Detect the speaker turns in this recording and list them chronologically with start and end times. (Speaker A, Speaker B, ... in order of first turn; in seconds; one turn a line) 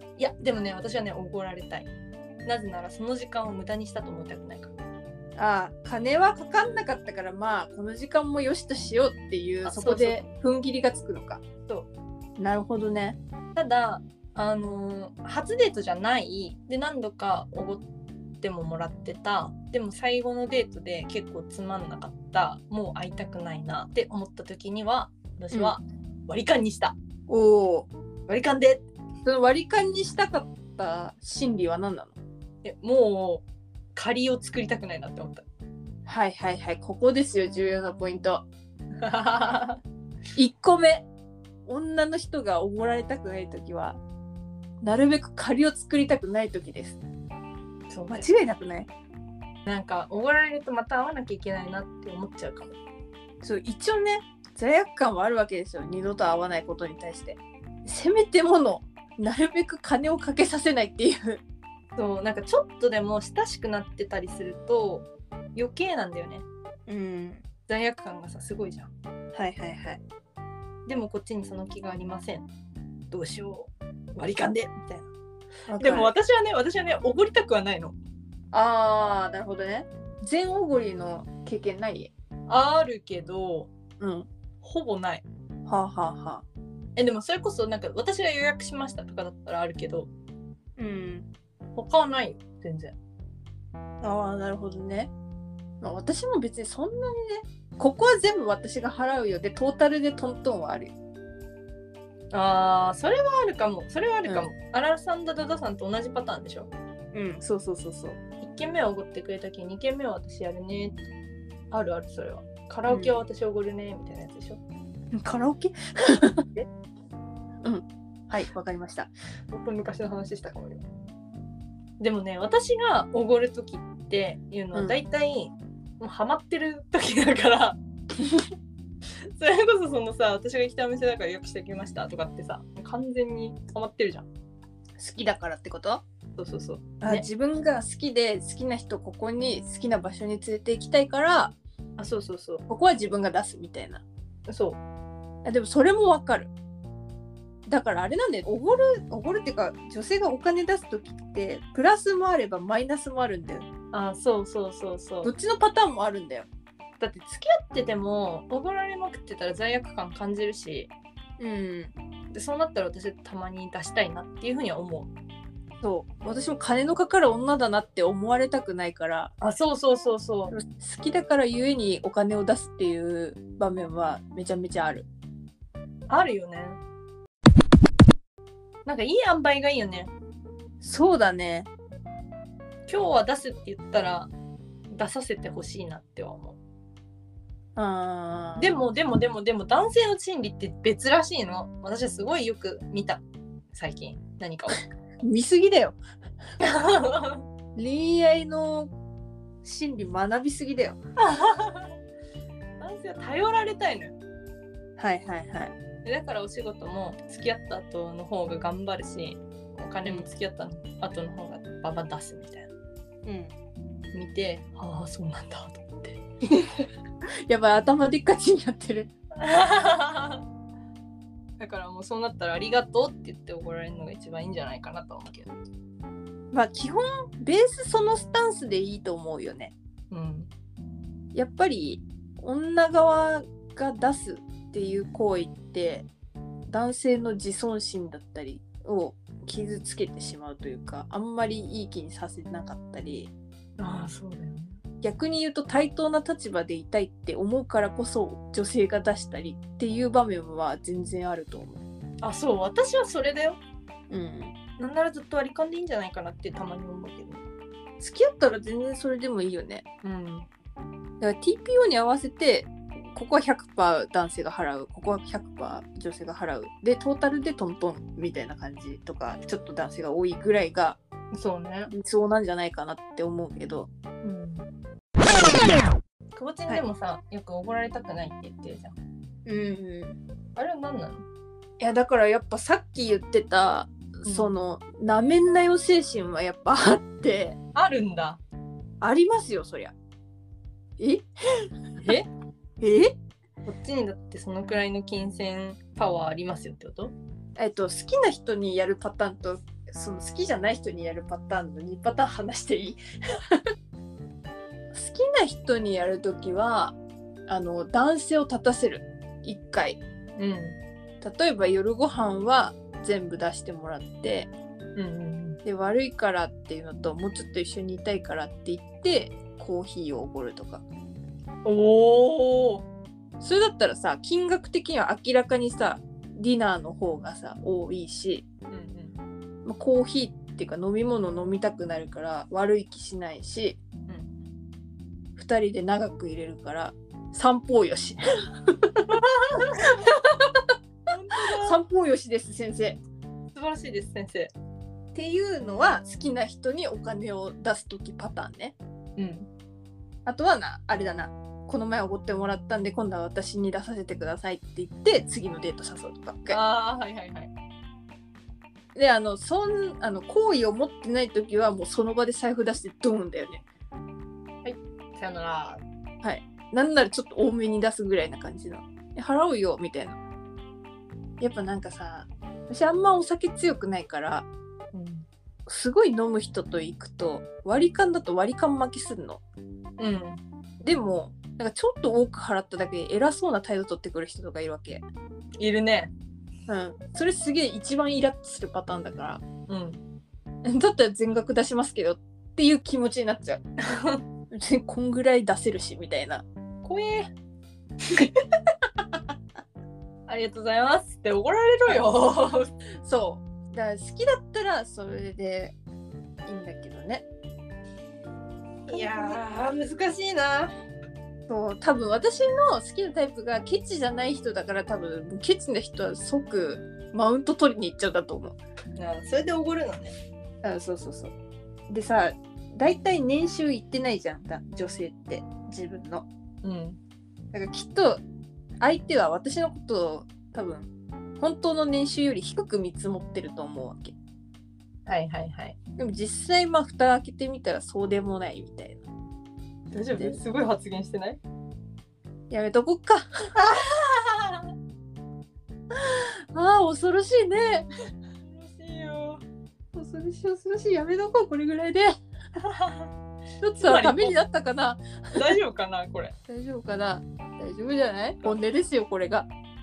Speaker A: 0.2-1.9
Speaker A: 2.4-4.7
Speaker B: 5.4-11.4
Speaker A: 9.6-10.3
Speaker B: 12.4-13.2
Speaker A: 13.5-17.8
Speaker A: 18.4-26.9
Speaker B: 27.3-27.9
Speaker A: 28.3-28.8
Speaker B: 29.2-32.2
Speaker A: 32.6-35.4
Speaker B: 36.0-38.4
Speaker A: 39.0-39.8
Speaker B: 40.4-41.1
Speaker B: 41.6-44.0
Speaker B: 44.8-47.0
Speaker A: 47.9-48.2
Speaker B: 48.1-48.9
Speaker A: 49.6-52.8
Speaker B: 53.4-61.4
Speaker A: 62.0-66.5
Speaker B: 66.9-67.4
Speaker A: 67.7-68.9
Speaker B: 69.3-70.0
Speaker A: 70.8-72.5
Speaker A: 73.1-75.1
Speaker B: 75.7-76.1
Speaker A: 75.8-77.9
Speaker B: 78.5-82.1
Speaker A: 82.5-83.7
Speaker B: 84.0-84.3
Speaker A: 84.6-85.2
Speaker B: 85.7-86.4
Speaker A: 87.0-90.1
Speaker B: 90.8-91.3
Speaker A: 91.7-92.9
Speaker B: 94.0-95.1
Speaker B: 95.8-100.9
Speaker A: 102.3-106.7
Speaker B: 107.1-108.2
Speaker A: 108.4-111.0
Speaker A: 111.7-114.6
Speaker B: 112.9-113.2
Speaker B: 115.1-116.7
Speaker B: 117.6-119.1
Speaker A: 119.5-120.8
Speaker A: 122.0-127.8
Speaker A: 129.2-134.3
Speaker B: 135.0-136.0
Speaker A: 136.4-137.2
Speaker B: 137.0-141.6
Speaker A: 142.0-142.6
Speaker B: 142.7-144.0
Speaker A: 144.5-144.8
Speaker B: 145.4-146.5
Speaker B: 147.7-153.7
Speaker A: 153.9-155.3
Speaker B: 155.2-156.5
Speaker A: 157.0-160.9
Speaker B: 161.4-161.9
Speaker A: 162.3-165.1
Speaker B: 165.8-169.3
Speaker A: 169.4-170.5
Speaker B: 170.5-175.1
Speaker A: 176.1-176.8
Speaker A: 178.8-180.1
Speaker B: 180.8-181.7
Speaker A: 182.9-184.3
Speaker A: 184.9-186.6
Speaker B: 187.8-188.8
Speaker A: 188.6-194.8
Speaker B: 195.2-196.0
Speaker A: 196.6-197.4
Speaker B: 197.8-198.9
Speaker B: 199.6-201.0
Speaker A: 201.2-201.9
Speaker A: 202.8-204.2
Speaker B: 205.0-205.7
Speaker A: 206.0-212.7
Speaker B: 213.2-213.5
Speaker A: 214.1-216.2
Speaker B: 216.4-216.8
Speaker B: 217.5-219.1
Speaker A: 219.4-220.4
Speaker A: 221.6-225.6
Speaker B: 226.5-229.7
Speaker A: 230.1-230.5
Speaker B: 231.3-236.1
Speaker B: 236.7-243.3
Speaker A: 243.8-244.8
Speaker B: 245.0-251.8
Speaker A: 252.2-253.6
Speaker B: 254.1-254.5
Speaker A: 254.8-257.4
Speaker B: 258.0-259.8
Speaker A: 260.0-260.5
Speaker B: 261.2-271.0
Speaker A: 271.3-271.9
Speaker B: 271.9-273.9
Speaker A: 274.2-274.7
Speaker A: 276.3-279.0
Speaker B: 279.4-280.2
Speaker A: 280.6-281.2
Speaker B: 281.8-287.6
Speaker A: 284.2-284.5
Speaker A: 287.7-288.4
Speaker B: 289.0-289.9
Speaker B: 291.0-292.1
Speaker A: 292.0-292.3
Speaker B: 292.8-293.1
Speaker A: 293.6-297.1
Speaker B: 297.6-303.6
Speaker B: 304.9-307.0
Speaker B: 307.5-310.0
Speaker A: 310.4-310.8
Speaker B: 311.2-314.5
Speaker A: 314.9-315.6
Speaker B: 315.6-320.8
Speaker A: 321.6-322.8
Speaker B: 323.4-328.4
Speaker A: 328.7-329.2
Speaker B: 329.6-333.8
Speaker B: 335.4-340.7
Speaker A: 341.1-341.8
Speaker B: 341.6-343.0
Speaker A: 343.5-344.5
Speaker B: 345.1-348.8
Speaker A: 349.2-349.5
Speaker B: 350.2-356.6
Speaker A: 356.5-357.5
Speaker B: 358.9-363.6
Speaker A: 364.6-365.8
Speaker B: 366.2-370.2
Speaker B: 371.4-374.5
Speaker A: 374.9-375.2
Speaker B: 375.7-379.4
Speaker A: 380.0-380.4
Speaker B: 380.8-385.0
Speaker A: 385.6-386.1
Speaker B: 386.7-389.4
Speaker A: 389.7-390.0
Speaker B: 390.6-393.6
Speaker A: 393.9-394.2
Speaker B: 394.5-396.4
Speaker A: 396.8-397.3
Speaker A: 400.3-402.7
Speaker B: 403.0-405.8
Speaker B: 406.4-407.2
Speaker B: 408.9-409.4
Speaker A: 408.9-410.7
Speaker B: 411.5-418.6
Speaker A: 419.0-420.1
Speaker B: 420.6-421.3
Speaker B: 421.9-426.3
Speaker A: 426.6-427.0
Speaker B: 427.5-428.2
Speaker B: 428.8-430.9
Speaker B: 431.4-434.1
Speaker A: 435.1-435.8
Speaker B: 436.0-439.1
Speaker A: 439.9-441.4
Speaker B: 442.5-443.3
Speaker A: 443.6-444.7
Speaker B: 445.9-447.9
Speaker A: 448.4-449.4
Speaker B: 449.9-452.1
Speaker A: 452.6-453.1
Speaker B: 453.6-455.5
Speaker A: 453.8-454.3
Speaker A: 455.3-456.3
Speaker B: 456.5-459.5